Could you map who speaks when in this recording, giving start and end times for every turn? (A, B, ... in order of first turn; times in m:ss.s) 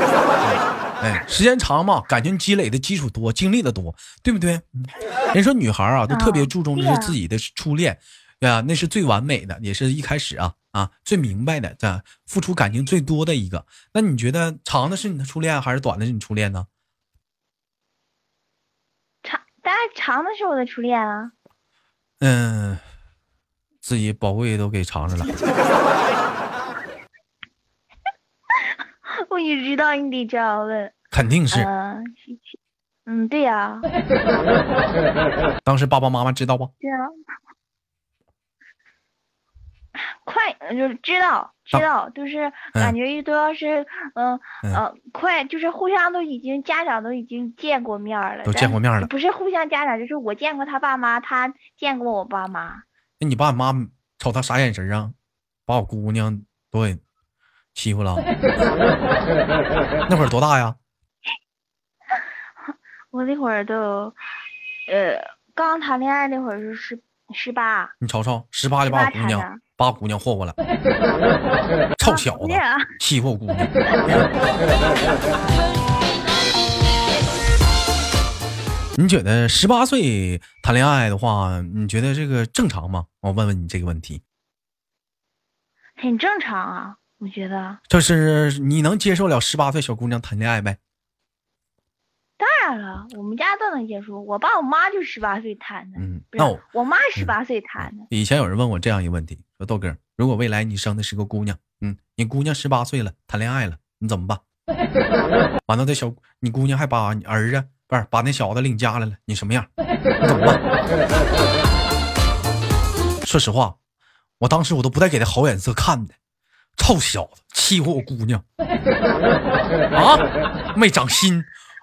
0:00.4-0:16.7 A
0:06.1-0:07.2 B
0:19.2-0:21.3 B
0:22.2-0:22.8 A
0:23.8-0:25.3 A
0:29.1-0:31.0 B
0:31.1-0:31.7 A
0:31.5-0:32.6 B
0:33.1-0:33.9 B
0:35.6-0:36.7 A
0:36.8-0:37.2 B
0:40.0-0:52.8 B
0:48.5-0:49.1 A
0:53.2-0:55.2 A
0:55.7-0:57.0 A
0:57.8-0:58.3 A
1:00.1-1:00.8 A
1:03.1-1:04.2 B
1:04.9-1:07.9 B
1:08.0-1:10.6 A
1:08.9-1:09.6 B
1:12.0-1:14.3 A
1:12.0-1:13.0 B
1:19.0-1:24.2 A
1:26.0-1:27.8 B
1:27.9-1:30.8 A
1:32.4-1:38.1 B
1:36.0-1:36.6 A
1:37.2-1:44.4 A
1:45.7-1:49.7 A
1:50.2-1:50.6 A
1:53.2-1:53.8 A
1:54.4-1:56.2 A
1:56.8-1:58.4 A
1:59.9-2:01.5 A